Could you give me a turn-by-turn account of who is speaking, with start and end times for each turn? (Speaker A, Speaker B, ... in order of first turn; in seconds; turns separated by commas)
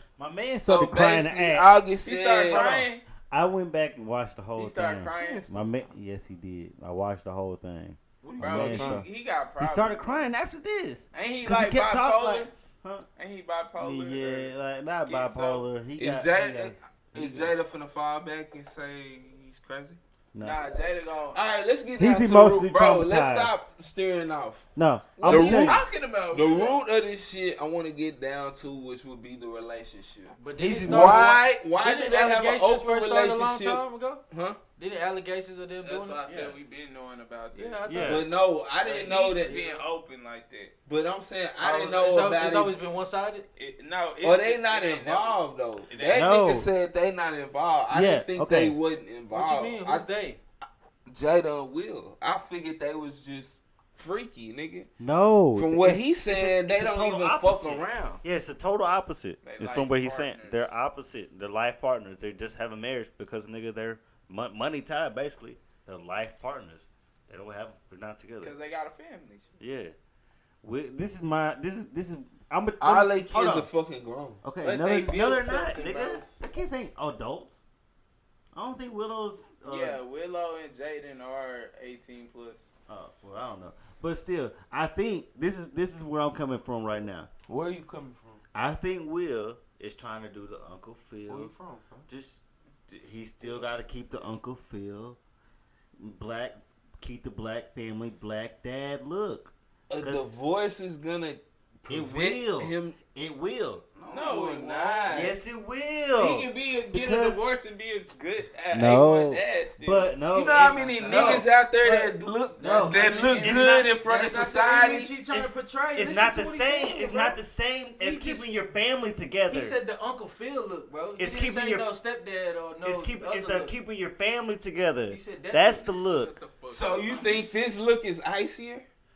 Speaker A: 0.2-1.7, Speaker B: 0.7-2.8, Speaker C: 2.0-3.0, Speaker A: 2.5-9.1, Speaker C: 4.6-5.8, Speaker B: 5.2-5.5, Speaker B: 8.2-9.1, Speaker C: 8.4-10.2, Speaker A: 9.6-13.1, Speaker C: 11.1-12.5, Speaker C: 13.2-14.5, Speaker A: 13.8-17.5, Speaker C: 15.1-15.7, Speaker B: 16.0-20.0, Speaker A: 20.3-20.6, Speaker C: 20.4-21.4, Speaker B: 21.3-24.7, Speaker A: 22.0-23.6, Speaker A: 24.8-25.8, Speaker C: 25.2-26.8, Speaker B: 25.2-34.6, Speaker D: 30.4-34.2, Speaker A: 30.6-31.4, Speaker D: 34.8-36.2, Speaker C: 35.8-37.9, Speaker A: 36.3-36.5, Speaker D: 37.5-38.3, Speaker A: 37.9-38.2, Speaker B: 38.0-39.8, Speaker C: 38.8-40.7, Speaker D: 39.4-39.8, Speaker B: 40.9-42.8, Speaker D: 41.6-43.5, Speaker C: 43.6-46.4, Speaker B: 44.2-50.1, Speaker A: 46.1-46.7, Speaker A: 47.9-48.8, Speaker D: 49.3-50.4, Speaker B: 51.1-54.9, Speaker A: 55.0-68.5, Speaker B: 55.5-58.2, Speaker C: 59.4-60.7, Speaker C: 68.4-69.5, Speaker A: 69.6-69.9, Speaker A: 70.6-73.7, Speaker B: 72.8-74.5, Speaker A: 74.4-77.6, Speaker C: 74.6-76.3, Speaker A: 78.5-80.0, Speaker C: 79.6-82.8, Speaker A: 82.9-87.3, Speaker B: 87.5-88.4, Speaker A: 88.5-91.5, Speaker B: 91.3-92.1, Speaker A: 92.1-95.2, Speaker A: 96.0-100.4, Speaker B: 99.9-103.0, Speaker A: 101.9-103.8, Speaker B: 104.0-105.4, Speaker C: 104.1-105.3, Speaker A: 105.1-107.5, Speaker C: 106.2-110.2, Speaker A: 108.7-113.9, Speaker B: 110.3-115.1, Speaker D: 110.8-111.5, Speaker D: 112.6-117.4, Speaker A: 115.3-119.8, Speaker D: 118.0-118.7, Speaker D: 119.5-123.7, Speaker A: 121.2-121.9, Speaker A: 122.8-126.3, Speaker D: 125.1-126.0, Speaker C: 126.2-127.5, Speaker B: 126.7-128.8, Speaker D: 126.8-127.5